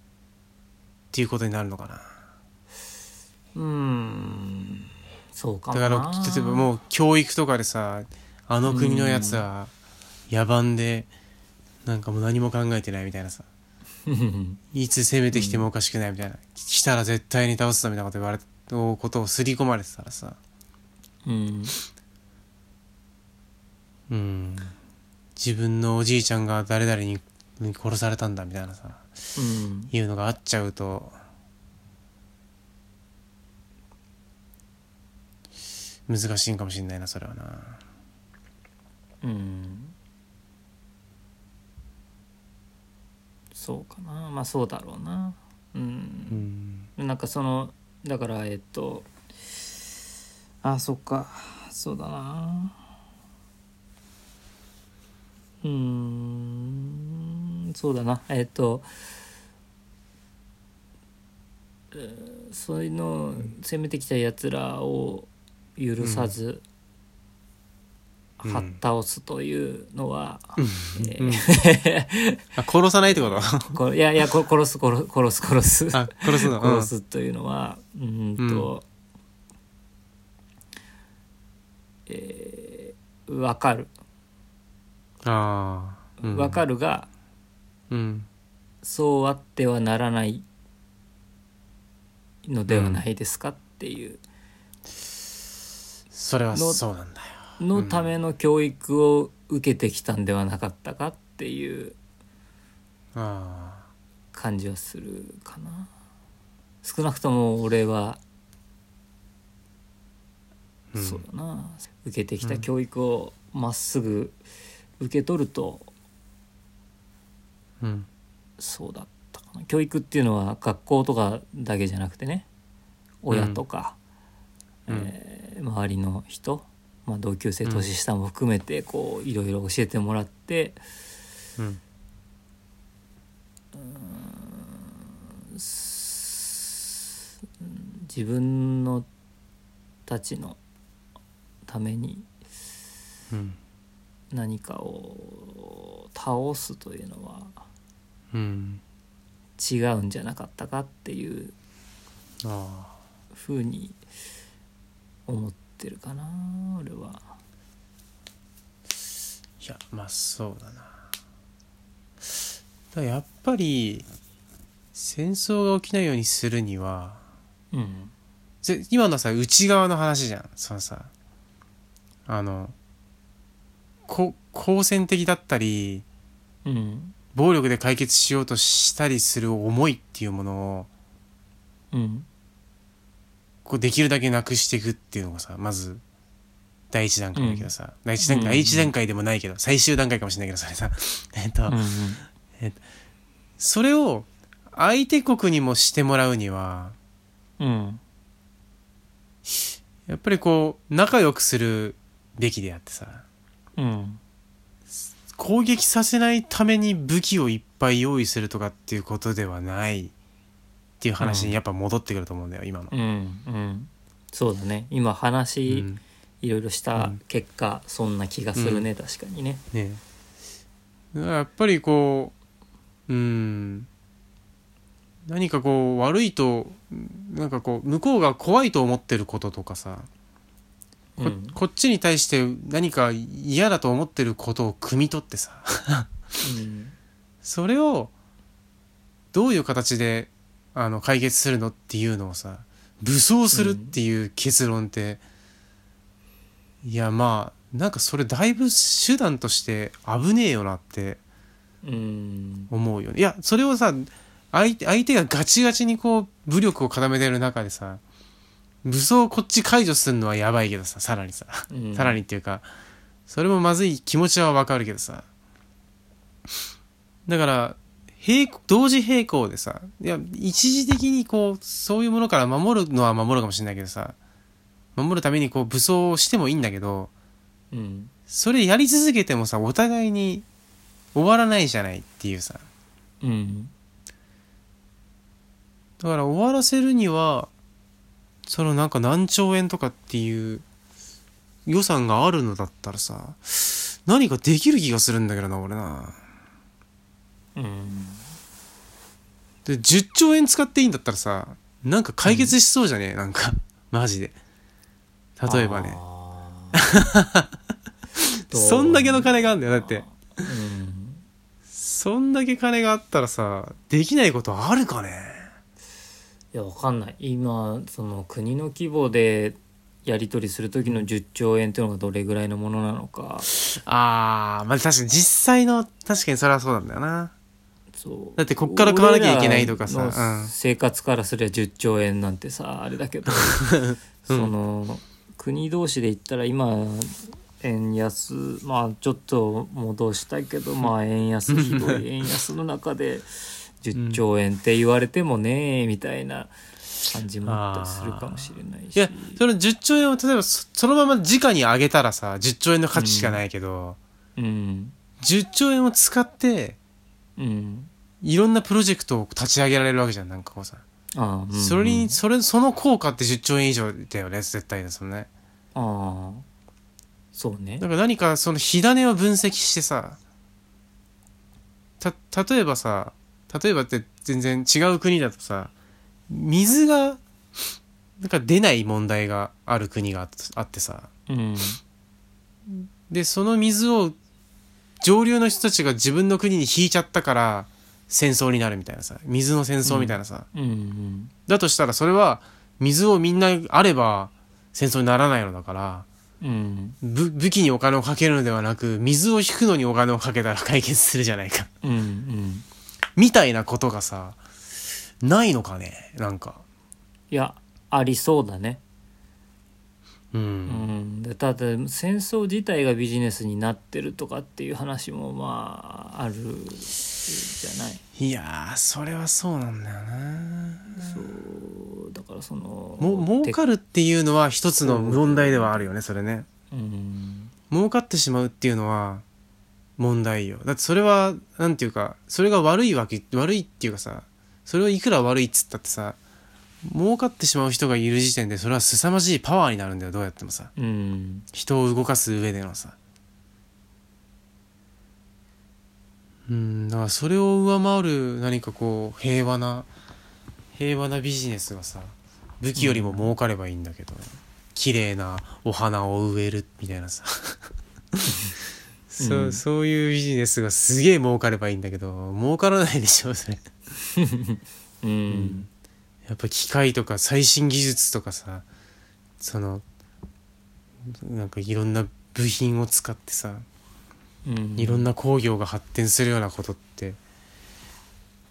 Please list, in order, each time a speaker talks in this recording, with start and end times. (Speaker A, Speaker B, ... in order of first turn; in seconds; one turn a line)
Speaker A: 1.1-2.1
Speaker B: 3.5-6.7
Speaker A: 5.7-9.7
Speaker B: 8.7-9.4
Speaker A: 10.3-11.1
Speaker A: 11.8-13.4
Speaker B: 14.1-14.6
Speaker A: 14.7-20.4
Speaker B: 15.3-15.7
Speaker B: 21.2-21.7
Speaker A: 24.1-24.7
Speaker A: 25.4-29.1
Speaker B: 29.4-29.9
Speaker A: 29.9-31.1
Speaker A: 36.1-37.8
Speaker B: 39.2-39.9
Speaker B: 43.5-46.5
Speaker A: 46.3-46.9
Speaker B: 47.0-49.1
Speaker B: 50.6-52.8
Speaker B: 55.6-58.9
Speaker B: 61.9-66.6
Speaker A: 66.0-66.3
Speaker B: 68.4-72.4
Speaker A: 68.4-68.8
Speaker A: 70.6-71.4
Speaker A: 72.5-73.8
Speaker B: 73.1-78.8
Speaker A: 75.9-76.9
Speaker A: 78.4-78.7
Speaker B: 82.1-83.9
Speaker A: 85.2-86.6
Speaker B: 86.2-87.1
Speaker A: 87.9-88.3
Speaker B: 88.8-90.5
Speaker B: 92.4-94.2
Speaker A: 92.7-93.0
Speaker A: 96.1-98.1
Speaker B: 96.5-96.8
Speaker B: 97.6-102.0
Speaker A: 103.1-103.9
Speaker B: 104.3-105.9
Speaker B: 106.8-108.2
Speaker A: 110.9-111.2
Speaker B: 111.0-114.4
Speaker A: 112.4-112.7
Speaker B: 115.0-115.9
Speaker A: 117.8-118.1
Speaker B: 118.6-122.5
Speaker B: 123.2-124.0
Speaker A: 123.3-123.6
Speaker B: 124.9-130.8
Speaker B: 133.7-139.1
Speaker B: 140.1-140.6
Speaker B: 141.7-142.3
Speaker A: 143.3-143.6
Speaker B: 144.3-147.6
Speaker A: 148.3-148.8
Speaker B: 149.6-151.5
Speaker A: 152.4-153.0
Speaker B: 153.3-154.0
Speaker B: 155.3-157.3
Speaker A: 159.6-160.9
Speaker A: 162.9-164.1
Speaker A: 164.9-167.2
Speaker B: 167.7-168.1
Speaker A: 168.6-171.1
Speaker A: 172.3-172.7
Speaker A: 174.1-176.0
Speaker B: 176.6-177.1
Speaker A: 177.3-180.9
Speaker B: 181.9-182.3
Speaker A: 183.6-186.0
Speaker A: 186.9-191.8
Speaker B: 187.3-188.9
Speaker B: 191.7-192.2
Speaker A: 193.6-196.9
Speaker B: 197.6-198.0
Speaker A: 199.5-203.2
Speaker B: 203.8-204.2
Speaker A: 205.3-210.1
Speaker A: 211.0-212.9
Speaker B: 211.2-211.6
Speaker B: 212.9-215.9
Speaker A: 215.7-216.0
Speaker B: 216.4-219.6
Speaker A: 218.6-218.9
Speaker A: 219.7-220.0
Speaker A: 221.1-222.3
Speaker A: 223.1-223.9
Speaker A: 225.3-230.1
Speaker B: 231.2-231.6
Speaker A: 231.2-236.1
Speaker B: 236.4-236.9
Speaker A: 237.4-238.1
Speaker A: 239.3-245.2
Speaker B: 243.5-243.9
Speaker A: 246.8-251.2
Speaker B: 251.8-252.7
Speaker A: 252.7-258.0
Speaker A: 258.8-262.7
Speaker B: 261.7-262.2
Speaker A: 263.3-265.2
Speaker A: 267.3-274.1
Speaker A: 274.9-277.1
Speaker B: 277.7-278.1
Speaker A: 278.3-280.4
Speaker A: 281.1-282.6
Speaker B: 283.2-283.7
Speaker A: 286.0-287.5
Speaker A: 288.5-290.6
Speaker A: 291.6-296.2
Speaker B: 297.5-298.2
Speaker A: 299.6-304.4
Speaker B: 302.2-302.6
Speaker A: 305.4-306.0
Speaker B: 305.5-306.8
Speaker A: 306.7-307.5
Speaker A: 308.4-310.1
Speaker B: 308.5-311.2
Speaker A: 311.7-315.5
Speaker B: 316.5-323.5
Speaker A: 323.5-327.3
Speaker B: 328.0-333.7
Speaker A: 328.4-330.5
Speaker A: 333.6-334.5
Speaker B: 334.2-346.5
Speaker A: 341.5-342.0
Speaker A: 343.9-344.2
Speaker B: 347.1-349.4
Speaker A: 347.4-354.0
Speaker B: 352.9-353.4
Speaker B: 354.4-354.9
Speaker A: 355.2-356.8
Speaker B: 357.4-357.9
Speaker A: 358.2-360.8
Speaker B: 361.1-362.2
Speaker A: 361.5-365.3
Speaker B: 365.7-366.4
Speaker B: 367.3-367.8
Speaker A: 367.8-370.2
Speaker A: 372.0-375.7
Speaker A: 376.3-377.2
Speaker A: 378.2-381.1
Speaker B: 381.3-381.8
Speaker A: 382.7-384.1
Speaker A: 385.0-390.5
Speaker B: 389.8-391.3
Speaker A: 391.5-396.1
Speaker B: 396.4-397.0
Speaker A: 397.0-401.7
Speaker B: 401.8-402.6
Speaker A: 403.2-404.4
Speaker A: 405.2-406.6
Speaker B: 407.3-408.8
Speaker A: 410.3-410.9
Speaker B: 410.7-418.0
Speaker A: 418.2-421.2
Speaker B: 420.9-423.6
Speaker A: 423.0-426.5
Speaker B: 424.8-425.9
Speaker B: 426.7-427.5
Speaker A: 427.7-429.2
Speaker A: 430.0-436.2
Speaker A: 436.8-440.7
Speaker B: 440.8-441.5
Speaker A: 441.5-442.9
Speaker A: 446.5-449.9
Speaker A: 450.7-457.6
Speaker B: 452.8-453.3
Speaker A: 459.1-463.6
Speaker B: 459.2-459.6
Speaker B: 464.1-465.6
Speaker A: 465.3-465.7
Speaker A: 466.2-468.6
Speaker A: 469.4-469.8
Speaker A: 471.1-473.6
Speaker B: 474.4-475.1
Speaker A: 474.8-477.2